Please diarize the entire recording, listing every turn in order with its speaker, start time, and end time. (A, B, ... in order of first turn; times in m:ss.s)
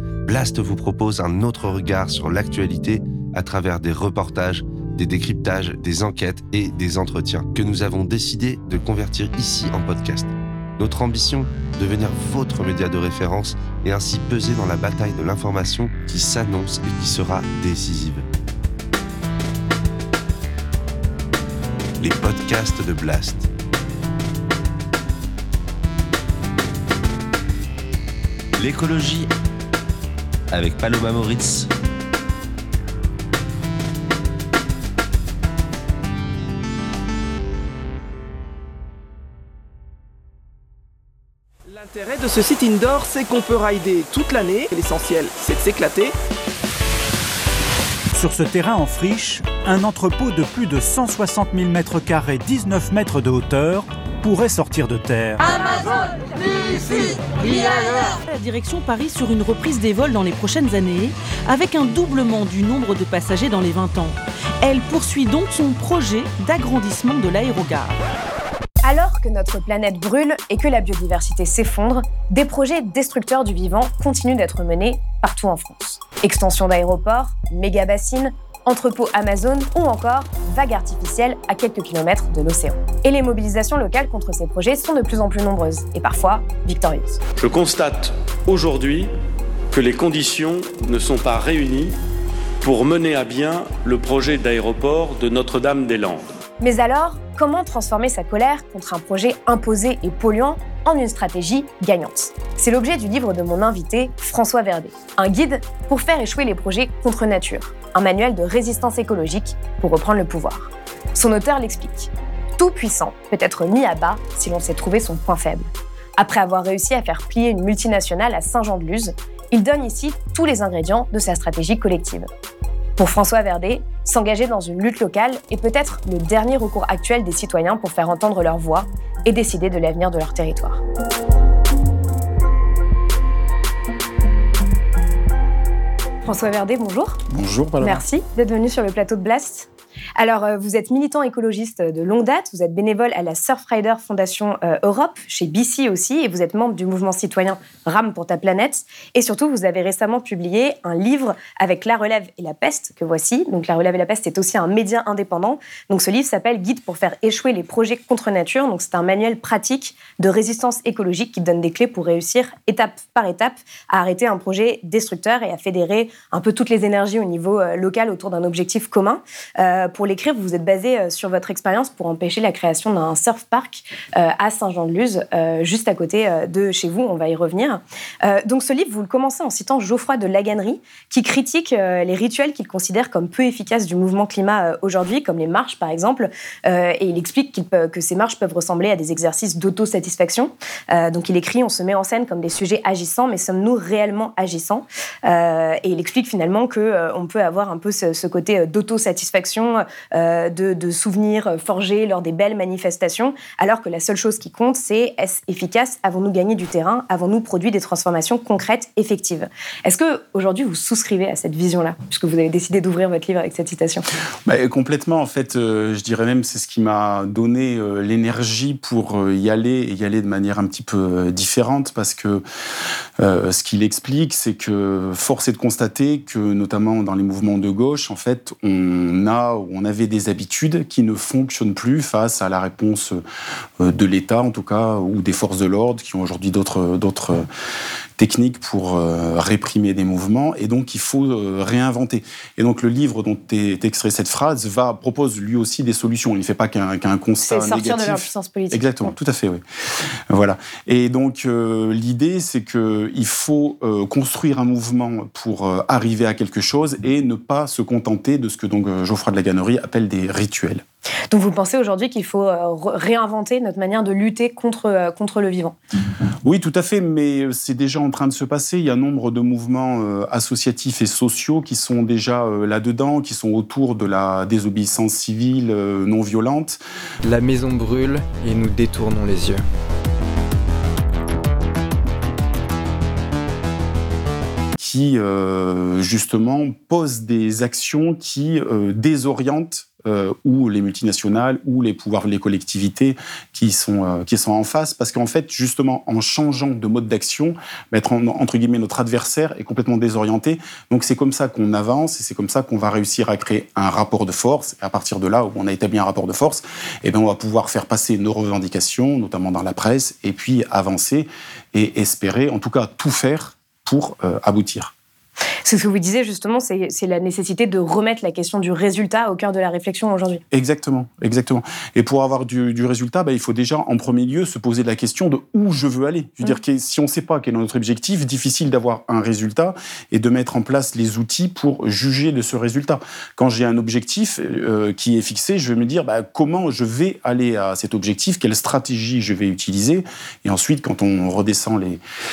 0:00.2-0:18.2 A
0:22.0-0:23.5 A
0:28.6-0:29.3 A
0:30.5-0:31.7 A
0:41.7-0:46.1 B
0:48.1-0:55.4 C
0:56.5-1:08.0 D
1:08.8-1:27.2 E
1:27.4-1:29.1 F
1:29.7-1:31.9 F
1:32.6-1:36.2 F
1:36.6-2:02.3 E
2:03.0-2:10.8 E
2:16.2-2:17.2 E
2:17.3-2:18.0 G
2:17.8-3:34.0 E
3:34.4-3:42.4 G
3:43.2-3:53.2 G
3:53.8-3:57.5 G
3:58.2-4:09.6 G
4:07.4-4:09.1 E
4:10.3-4:20.8 G
4:21.3-4:25.8 E
4:26.4-4:36.8 G
4:37.2-4:39.6 H
4:44.8-5:14.9 G
5:15.6-5:20.4 E
5:20.5-5:42.0 G